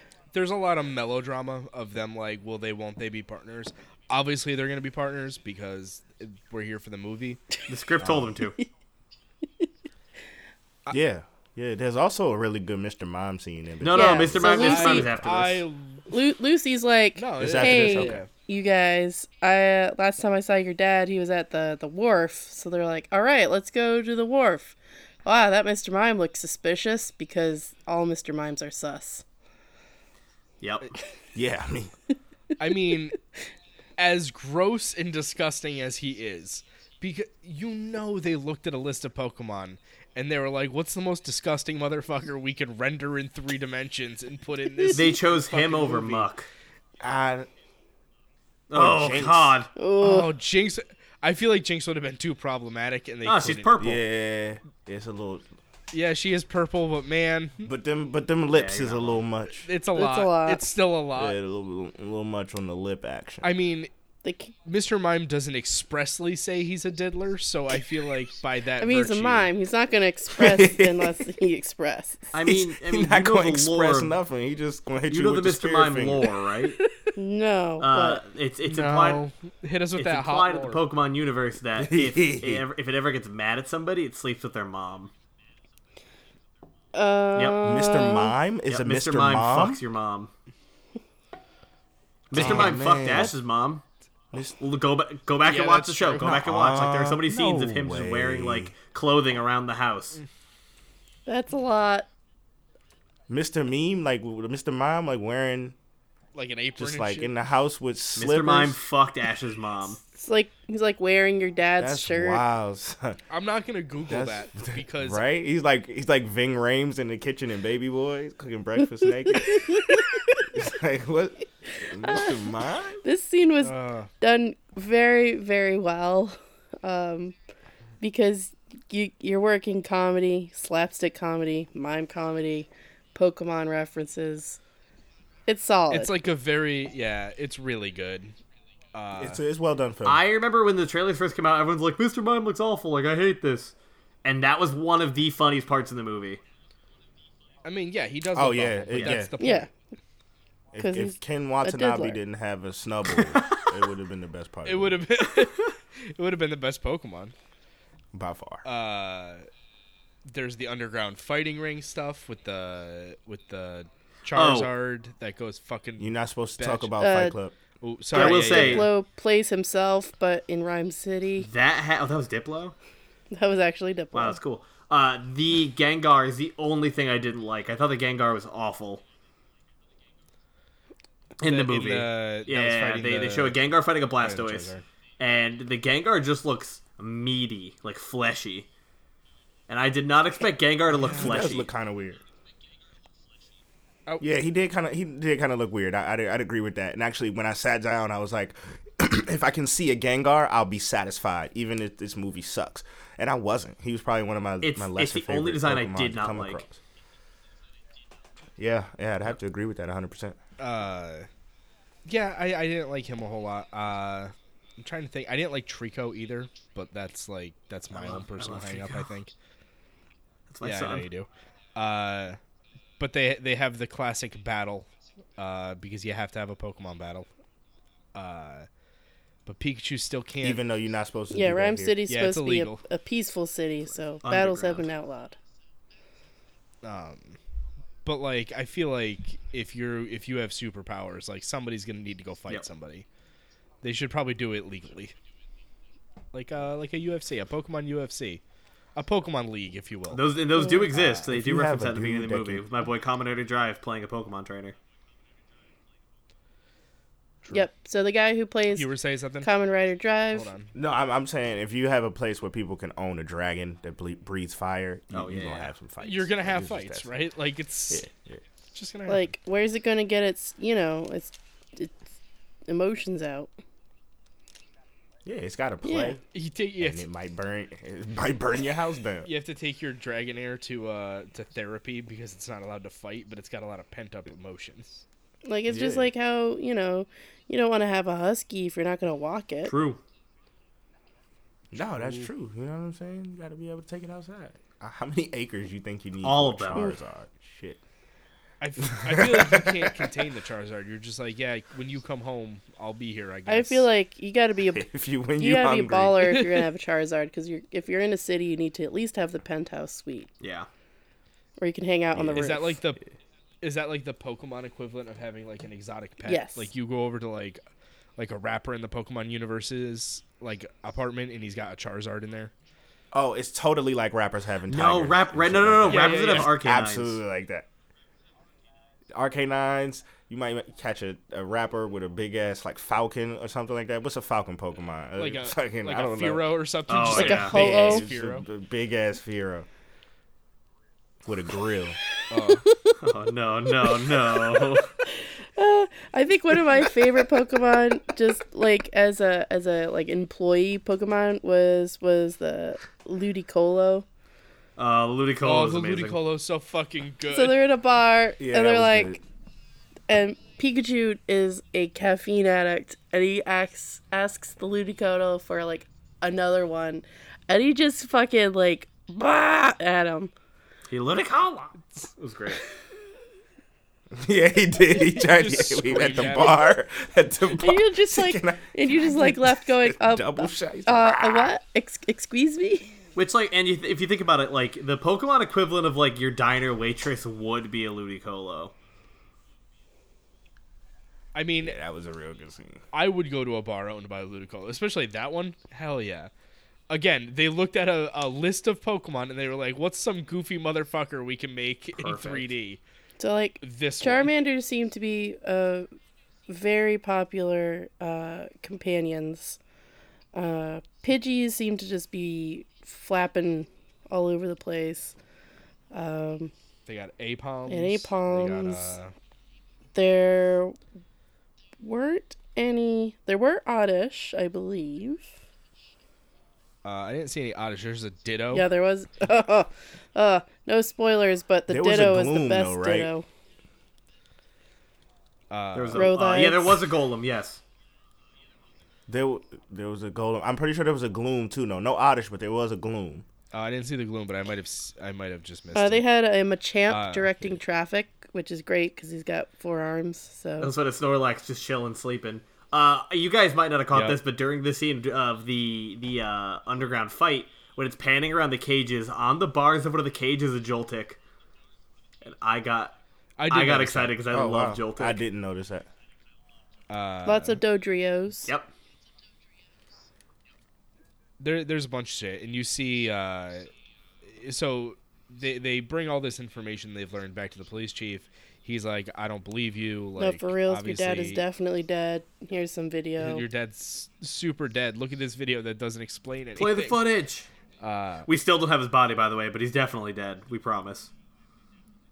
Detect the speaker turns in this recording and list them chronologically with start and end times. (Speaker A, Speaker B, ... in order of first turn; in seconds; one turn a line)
Speaker A: 0.3-7.4
Speaker B: 7.7-8.6
Speaker C: 8.0-8.3
Speaker C: 10.9-14.7
Speaker B: 13.8-15.6
Speaker D: 13.9-15.1
Speaker A: 14.5-16.1
Speaker D: 16.1-29.2
Speaker A: 17.1-18.3
Speaker C: 17.4-18.2
Speaker B: 30.6-30.9
Speaker C: 31.3-31.9
Speaker A: 32.6-33.2
Speaker A: 34.0-46.3
Speaker B: 44.9-46.5
Speaker C: 47.0-47.5
Speaker B: 48.7-49.7
Speaker C: 48.7-49.6
Speaker D: 49.8-50.3
Speaker A: 50.0-53.8
Speaker B: 53.2-54.0
Speaker C: 53.8-55.5
Speaker A: 55.9-57.7
Speaker C: 57.6-59.7
Speaker B: 58.5-59.2
Speaker A: 59.6-61.4
Speaker D: 59.9-60.6
Speaker C: 61.1-63.5
Speaker A: 63.4-63.9
Speaker D: 64.2-64.5
Speaker A: 64.6-69.5
Speaker D: 68.8-72.3
Speaker C: 70.3-71.1
Speaker B: 72.3-74.2
Speaker C: 72.4-76.3
Speaker B: 75.1-76.8
Speaker D: 77.1-78.2
Speaker B: 77.8-79.2
Speaker A: 78.6-80.8
Speaker B: 80.0-85.1
Speaker C: 81.8-82.7
Speaker D: 86.9-88.3
Speaker B: 87.3-87.6
Speaker C: 87.6-89.8
Speaker B: 88.7-90.3
Speaker B: 92.3-93.8
Speaker C: 92.3-93.3
Speaker A: 92.4-92.7
Speaker C: 94.3-94.6
Speaker B: 94.6-100.2
Speaker A: 95.4-96.3
Speaker C: 96.2-98.7
Speaker D: 101.2-102.1
Speaker C: 103.3-105.7
Speaker A: 106.3-107.3
Speaker C: 106.8-108.8
Speaker B: 108.2-110.0
Speaker D: 110.1-112.4
Speaker C: 111.8-113.2
Speaker A: 113.3-115.2
Speaker C: 114.1-123.0
Speaker D: 119.4-120.4
Speaker D: 122.0-122.3
Speaker D: 123.0-127.3
Speaker A: 123.6-124.1
Speaker D: 128.0-134.6
Speaker D: 135.5-136.1
Speaker A: 135.9-138.3
Speaker A: 138.9-139.4
Speaker C: 139.2-140.2
Speaker B: 140.0-143.7
Speaker B: 144.2-146.4
Speaker A: 147.6-149.7
Speaker C: 148.3-149.3
Speaker B: 148.9-149.2
Speaker D: 149.4-149.7
Speaker C: 150.7-155.0
Speaker D: 150.8-152.2
Speaker B: 153.3-153.7
Speaker A: 154.7-157.3
Speaker C: 158.1-158.7
Speaker A: 158.6-159.5
Speaker A: 160.3-166.9
Speaker B: 164.3-164.7
Speaker C: 166.0-167.5
Speaker D: 167.0-167.4
Speaker A: 167.8-168.9
Speaker D: 168.1-171.5
Speaker B: 168.1-168.9
Speaker B: 171.4-172.7
Speaker D: 173.3-174.4
Speaker B: 174.1-179.0
Speaker B: 181.4-188.7
Speaker A: 181.4-183.6
Speaker A: 184.2-184.8
Speaker B: 189.7-191.7
Speaker A: 190.9-191.4
Speaker C: 191.1-192.2
Speaker C: 194.2-206.8
Speaker B: 204.6-206.6
Speaker C: 208.6-210.4
Speaker A: 210.6-211.3
Speaker A: 212.1-219.3
Speaker B: 217.9-219.1
Speaker B: 220.5-221.1
Speaker A: 220.6-222.4
Speaker A: 223.0-227.3
Speaker A: 228.1-228.7
Speaker A: 229.4-230.6
Speaker C: 230.4-232.0
Speaker D: 231.3-235.3
Speaker A: 232.1-232.8
Speaker B: 234.2-234.9
Speaker A: 236.8-237.4
Speaker A: 238.0-243.1
Speaker A: 243.8-245.1
Speaker A: 246.3-248.4
Speaker A: 248.9-250.3
Speaker B: 250.1-254.8
Speaker D: 250.5-250.9
Speaker A: 250.9-251.2
Speaker C: 251.2-252.6
Speaker D: 257.5-260.5
Speaker A: 258.7-259.5
Speaker A: 260.3-260.7
Speaker C: 260.7-267.1
Speaker B: 265.1-265.7
Speaker A: 266.0-268.1
Speaker C: 267.9-268.4
Speaker A: 268.7-269.3
Speaker D: 269.1-272.0
Speaker D: 272.7-273.5
Speaker C: 275.2-276.2
Speaker D: 275.8-276.2
Speaker A: 276.3-277.0
Speaker C: 276.8-279.3
Speaker A: 279.2-285.0
Speaker D: 285.4-289.7
Speaker C: 285.7-286.1
Speaker B: 289.6-290.0
Speaker C: 291.7-297.8
Speaker A: 291.7-292.3
Speaker B: 296.2-296.9
Speaker A: 298.6-303.9
Speaker C: 298.9-300.1
Speaker D: 303.5-304.9
Speaker C: 304.7-306.4
Speaker D: 305.4-310.3
Speaker B: 310.4-310.7
Speaker D: 311.6-312.8
Speaker C: 312.1-312.5
Speaker A: 312.3-313.0
Speaker A: 313.6-317.6
Speaker D: 316.2-316.7
Speaker A: 318.2-322.5
Speaker C: 323.1-327.7
Speaker B: 324.7-327.2
Speaker A: 325.9-326.6
Speaker C: 329.1-336.6
Speaker A: 335.1-338.4
Speaker B: 336.9-337.6
Speaker D: 337.1-338.1
Speaker C: 337.5-339.7
Speaker C: 341.2-342.0
Speaker A: 342.3-342.6
Speaker D: 342.5-343.0
Speaker B: 343.0-344.9
Speaker D: 343.8-354.1
Speaker B: 354.8-356.2
Speaker A: 355.4-357.6
Speaker D: 357.3-359.2
Speaker C: 358.4-359.2
Speaker D: 360.1-370.3
Speaker B: 370.9-372.6
Speaker C: 374.1-381.5
Speaker A: 375.1-376.6
Speaker D: 377.6-382.9
Speaker B: 383.1-388.7
Speaker A: 391.3-391.8
Speaker C: 391.6-392.8
Speaker A: 392.9-396.3
Speaker A: 396.9-402.8
Speaker B: 402.0-402.5
Speaker D: 403.2-405.9
Speaker A: 403.6-404.3
Speaker D: 406.5-409.6
Speaker D: 410.3-415.1
Speaker D: 415.9-416.5
Speaker A: 416.9-419.1
Speaker D: 417.7-418.9
Speaker D: 419.9-420.8
Speaker D: 421.8-425.3
Speaker A: 426.8-428.7
Speaker D: 428.5-433.2
Speaker C: 431.7-433.1
Speaker A: 435.5-436.1
Speaker B: 435.7-437.6
Speaker D: 435.9-436.8
Speaker C: 439.1-443.2
Speaker A: 443.5-446.0
Speaker D: 445.7-450.7
Speaker A: 446.9-447.5
Speaker B: 450.6-461.2
Speaker A: 453.9-454.2
Speaker B: 462.2-462.9
Speaker A: 463.4-464.2
Speaker B: 463.5-465.2
Speaker C: 464.3-465.9
Speaker A: 466.9-467.6
Speaker D: 467.2-468.5
Speaker B: 468.4-468.7
Speaker A: 471.4-473.7
Speaker A: 474.2-481.4
Speaker D: 480.2-483.4
Speaker A: 483.2-487.0
Speaker B: 486.6-487.5
Speaker A: 487.8-488.3
Speaker B: 488.3-491.1